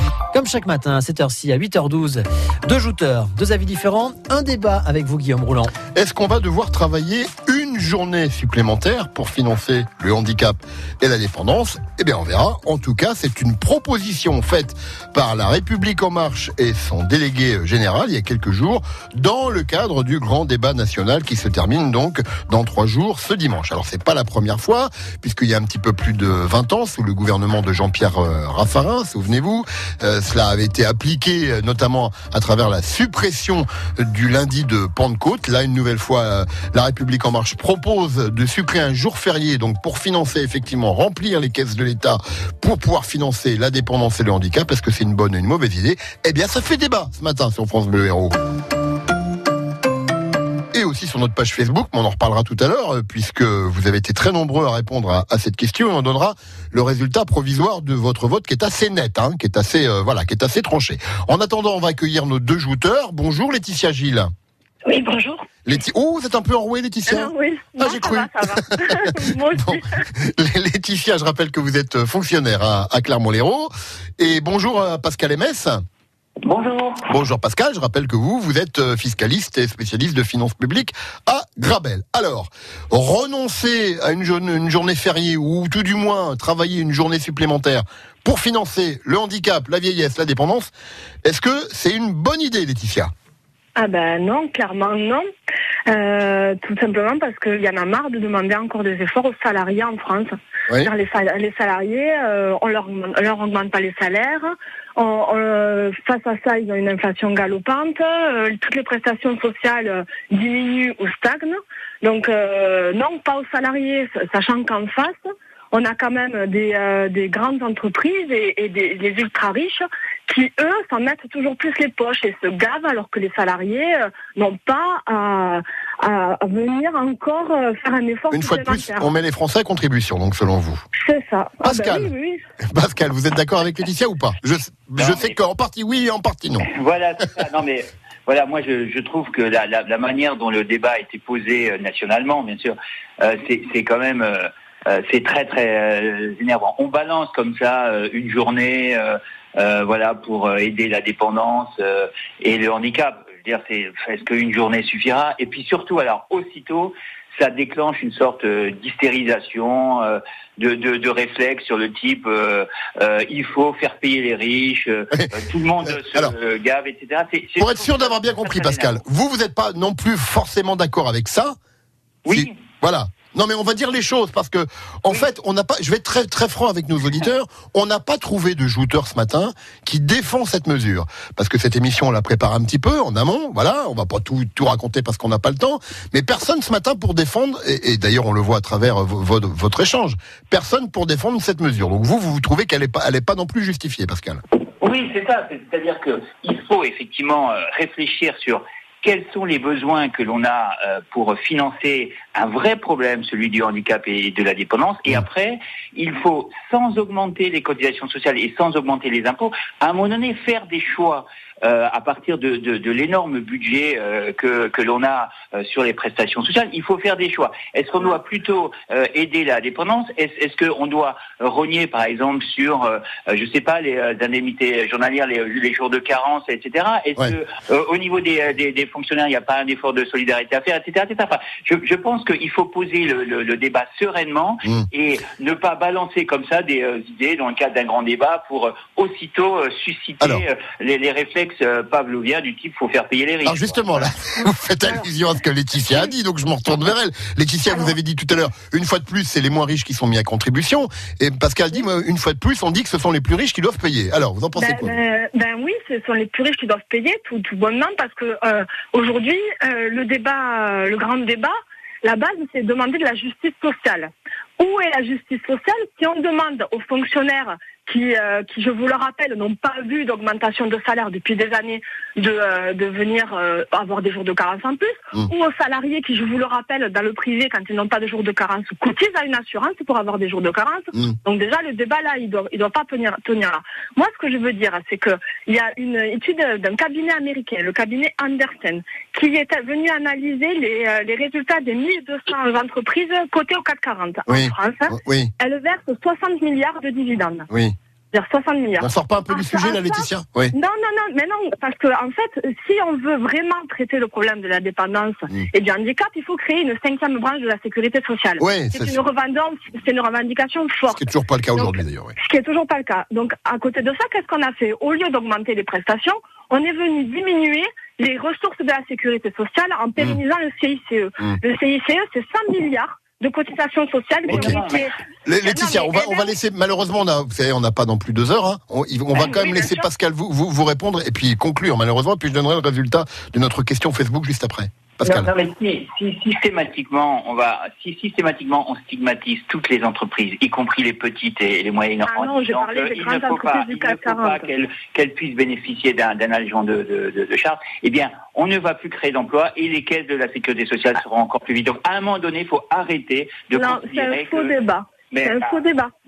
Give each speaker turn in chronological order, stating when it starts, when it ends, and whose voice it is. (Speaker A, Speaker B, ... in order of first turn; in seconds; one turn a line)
Speaker A: 0.3-5.7
Speaker B: 5.9-48.4
Speaker B: 50.7-64.3
Speaker C: 64.8-65.5
Speaker B: 65.7-75.8
Speaker C: 67.1-70.0
Speaker D: 76.4-77.1
Speaker B: 77.1-90.7
Speaker B: 91.2-93.1
Speaker C: 93.8-95.2
Speaker C: 95.9-115.1
Speaker C: 115.7-129.1
Speaker B: 128.3-130.8
Speaker C: 131.0-132.4
Speaker B: 131.6-132.1
Speaker B: 132.7-136.7
Speaker D: 135.0-135.3
Speaker D: 136.7-169.0
Speaker B: 167.6-171.5
Speaker D: 172.2-172.6
Speaker B: 172.3-194.4
Speaker D: 194.8-244.1
Speaker B: 243.4-254.9
Speaker C: 254.5-297.5
Speaker B: 294.3-295.3
Speaker B: 297.5-297.7
Speaker C: 298.1-326.3
Speaker B: 298.8-300.5
Speaker B: 308.4-309.0
Speaker B: 310.9-312.1
Speaker D: 324.2-324.9
Speaker B: 324.3-324.6
Speaker B: 325.2-335.3
Speaker D: 329.1-329.7
Speaker D: 335.1-354.5
Speaker C: 342.1-344.5
Speaker C: 353.5-355.9
Speaker D: 355.1-355.6